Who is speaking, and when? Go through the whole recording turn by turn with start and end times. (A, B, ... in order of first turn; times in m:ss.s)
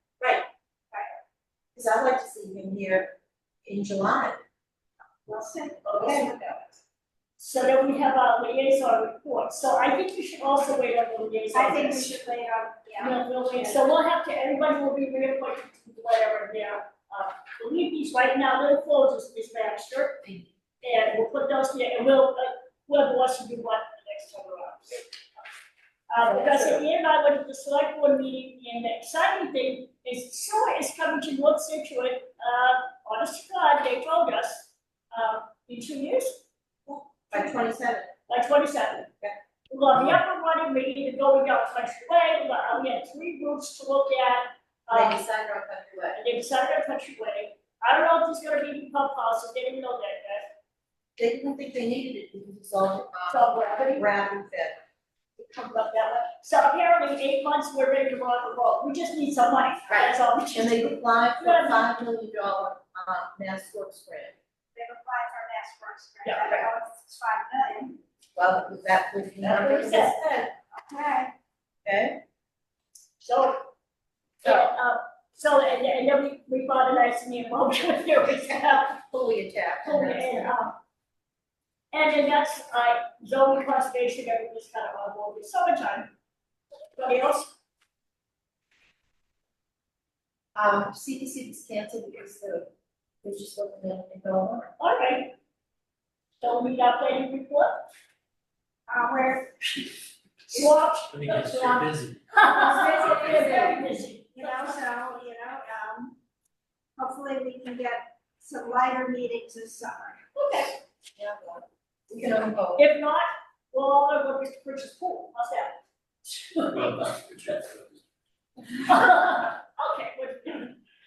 0:00.9-0:01.2 A
0:01.8-0:03.1 B
0:03.6-0:04.4 B
0:05.3-0:06.7 A
0:05.8-0:06.4 C
0:06.0-0:06.3 B
0:07.4-0:12.1 C
0:11.5-0:13.9 A
0:13.0-0:20.2 C
0:20.8-0:25.1 C
0:26.1-0:36.4 C
0:26.2-0:26.8 B
0:36.9-0:38.1 B
0:37.3-0:37.6 C
0:38.3-0:39.1 C
0:39.7-0:45.2 C
0:44.9-0:46.2 B
0:46.2-0:50.5 C
0:51.2-0:54.8 B
0:53.3-0:54.1 C
0:55.4-1:01.9 C
0:59.9-1:04.4 B
1:04.7-1:08.0 A
1:06.2-1:06.7 C
1:08.4-1:10.2 B
1:09.4-1:10.5 C
1:10.8-1:11.3 A
1:11.8-1:12.2 B
1:13.2-1:13.6 C
1:14.4-1:19.0 C
1:19.0-1:20.6 B
1:19.8-1:20.8 C
1:21.9-1:26.1 C
1:27.0-1:27.5 C
1:30.6-1:32.7 B
1:33.2-1:34.7 B
1:34.8-1:35.3 C
1:36.4-1:37.8 C
1:38.9-1:39.6 A
1:40.5-1:44.8 C
1:41.1-1:42.2 D
1:42.4-1:43.9 B
1:43.0-1:43.8 A
1:44.3-1:46.2 A
1:47.0-1:50.2 A
1:50.4-1:50.8 C
1:51.2-1:52.8 B
1:52.8-1:57.5 C
1:56.7-1:58.0 D
1:58.7-2:00.8 C